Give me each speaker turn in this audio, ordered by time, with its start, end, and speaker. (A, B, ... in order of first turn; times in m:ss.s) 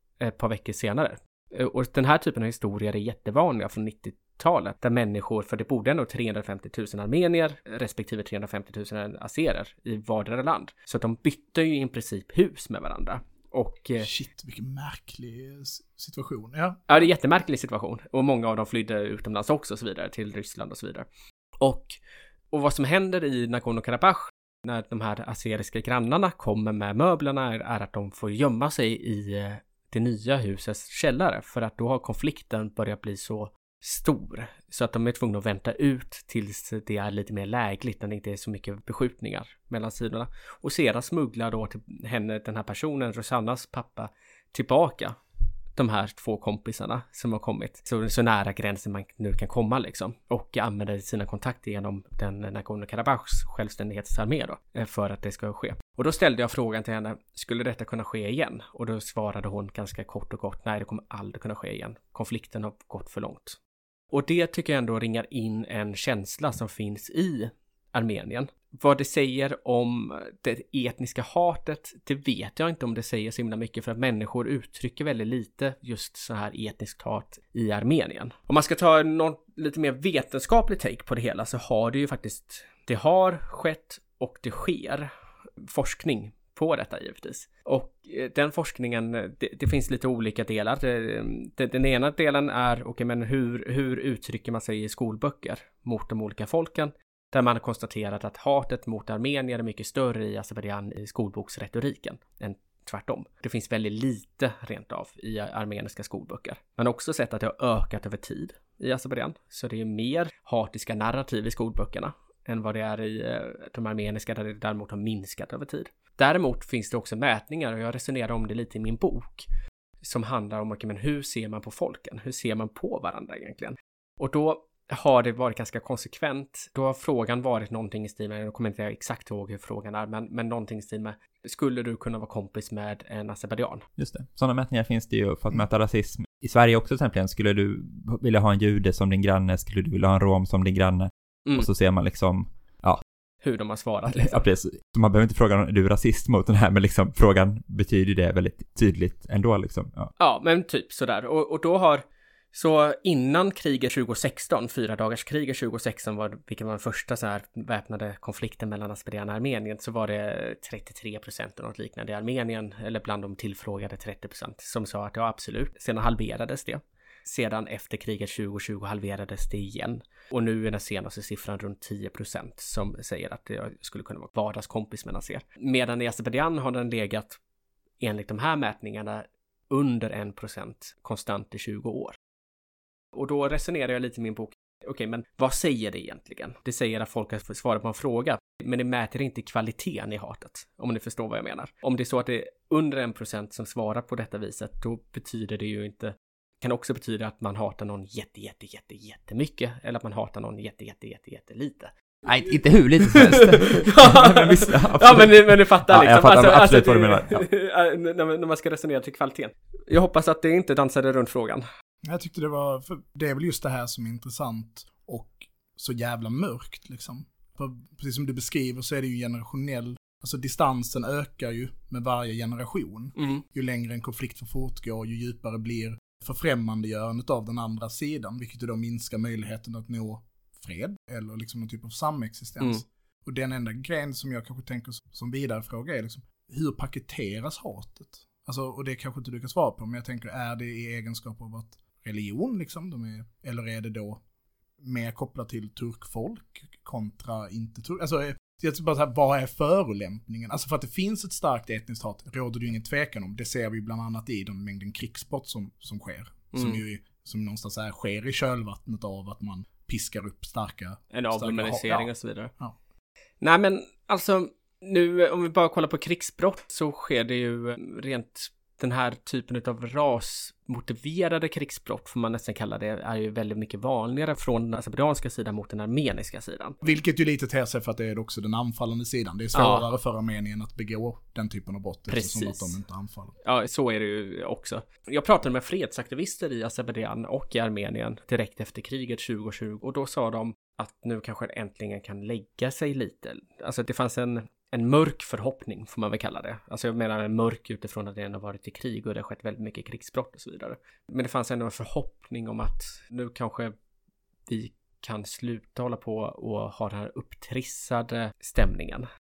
0:00.2-0:14.1 A
0:14.0-0:16.8 B
0:16.9-0:21.1 A
0:21.6-0:22.0 A
0:22.5-0:45.2 A
0:45.8-1:03.6 A
1:04.1-1:25.1 A
1:25.7-1:59.5 A
2:00.0-2:13.9 A
2:14.0-2:23.0 C
2:23.4-2:24.4 A
2:24.1-2:30.1 C
2:30.2-2:57.4 A
2:58.0-3:02.2 A
3:03.1-3:21.9 A
3:22.3-3:27.4 C
3:23.1-3:31.7 A
3:32.0-4:04.2 B
3:43.2-3:43.4 A
4:04.8-4:22.8 B
4:16.5-4:16.8 A
4:21.1-4:22.5 A
4:23.4-4:36.8 A
4:36.8-4:43.4 B
4:39.6-4:39.9 A
4:42.1-4:42.7 A
4:43.4-5:03.7 A
5:04.5-5:09.1 A